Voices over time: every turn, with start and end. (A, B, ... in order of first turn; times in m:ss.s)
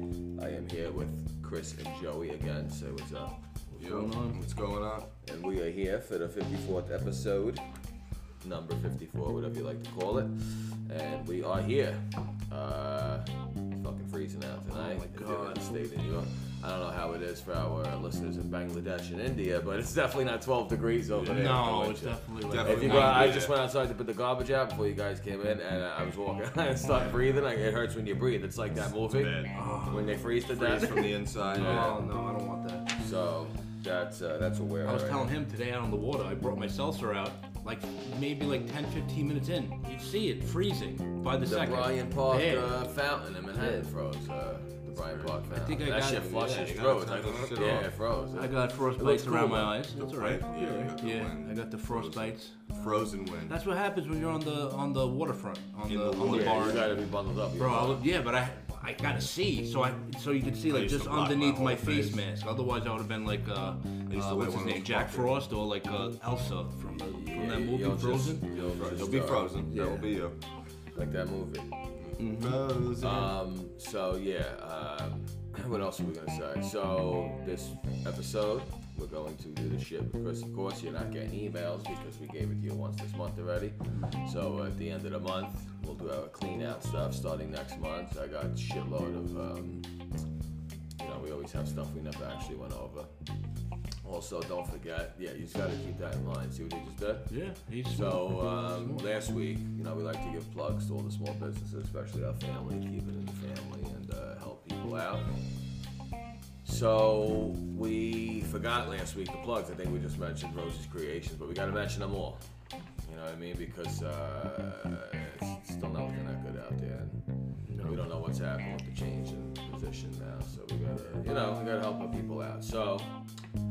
0:00.4-0:03.3 A
0:03.7-0:04.4 B
0:03.8-0:05.1 C
0:05.2-0:07.6 A
0:08.4-0:32.0 A
0:14.7-0:15.6 B
0:21.2-0:21.5 C
0:21.2-0:23.4 B
0:22.5-0:23.5 C
0:28.9-0:29.5 C
0:29.5-0:30.2 B
0:30.4-0:32.0 C
0:31.5-0:32.9 B
0:33.0-0:35.3 A
0:34.8-0:42.8 B
0:41.4-0:49.8 A
0:43.5-0:43.9 B
0:44.9-0:45.4 C
0:45.5-0:52.6 B
0:46.4-0:47.9 C
0:49.9-0:53.6 C
0:53.5-0:56.9 B
0:55.9-0:56.9 C
0:56.2-0:58.0 A
0:57.6-1:08.5 B
1:00.7-1:02.2 C
1:04.1-1:05.4 C
1:06.9-1:09.6 A
1:08.8-1:10.4 C
1:09.6-1:10.1 B
1:10.9-1:11.7 A
1:12.0-1:13.3 C
1:12.2-1:12.6 B
1:13.0-1:29.8 A
1:23.9-1:24.2 B
1:31.0-1:33.1 A
1:34.0-1:37.4 A
1:37.3-1:39.0 B
1:37.9-1:45.3 A
1:46.6-1:52.4 A
1:53.0-1:57.2 A
1:57.7-1:58.0 B
1:57.8-2:03.1 A